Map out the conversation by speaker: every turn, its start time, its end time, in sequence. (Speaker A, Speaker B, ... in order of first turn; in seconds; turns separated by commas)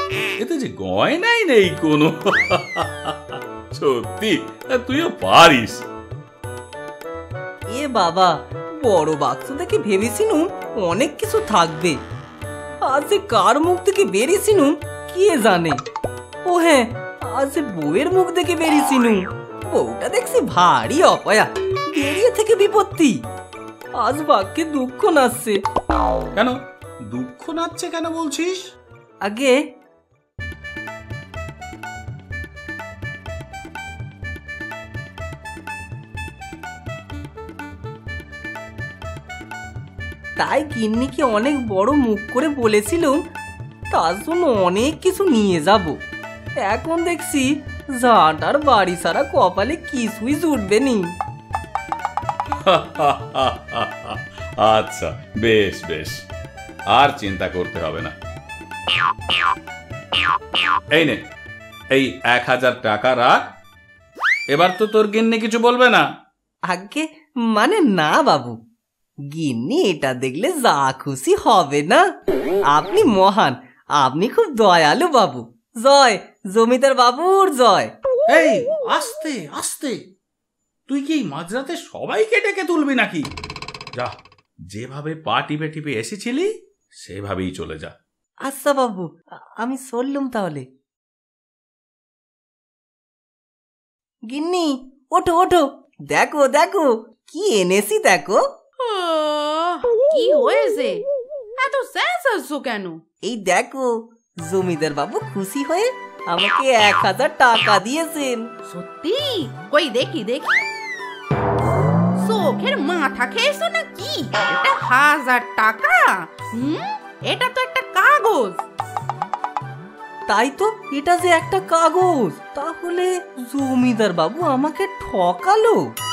Speaker A: 0.4-5.8, Speaker B: 7.7-12.0, Speaker B: 12.8-15.8, Speaker B: 16.4-23.2, Speaker B: 24.0-25.6, Speaker A: 26.4-28.7, Speaker B: 29.2-29.6, Speaker B: 40.4-43.2, Speaker B: 43.9-46.0, Speaker B: 46.6-51.1, Speaker A: 52.6-56.2, Speaker A: 56.9-58.1, Speaker A: 60.9-61.2, Speaker A: 61.9-63.4, Speaker A: 64.5-66.0, Speaker B: 66.7-68.6, Speaker B: 69.3-72.0, Speaker B: 72.7-77.9, Speaker A: 78.3-80.0, Speaker A: 80.9-83.3, Speaker A: 84.7-87.9, Speaker B: 88.5-89.1, Speaker B: 89.6-90.7, Speaker B: 94.3-98.4, Speaker C: 98.8-101.0, Speaker C: 101.6-103.0, Speaker B: 103.3-103.9, Speaker B: 104.5-108.4, Speaker C: 108.7-110.6, Speaker C: 112.2-118.6, Speaker B: 120.3-125.8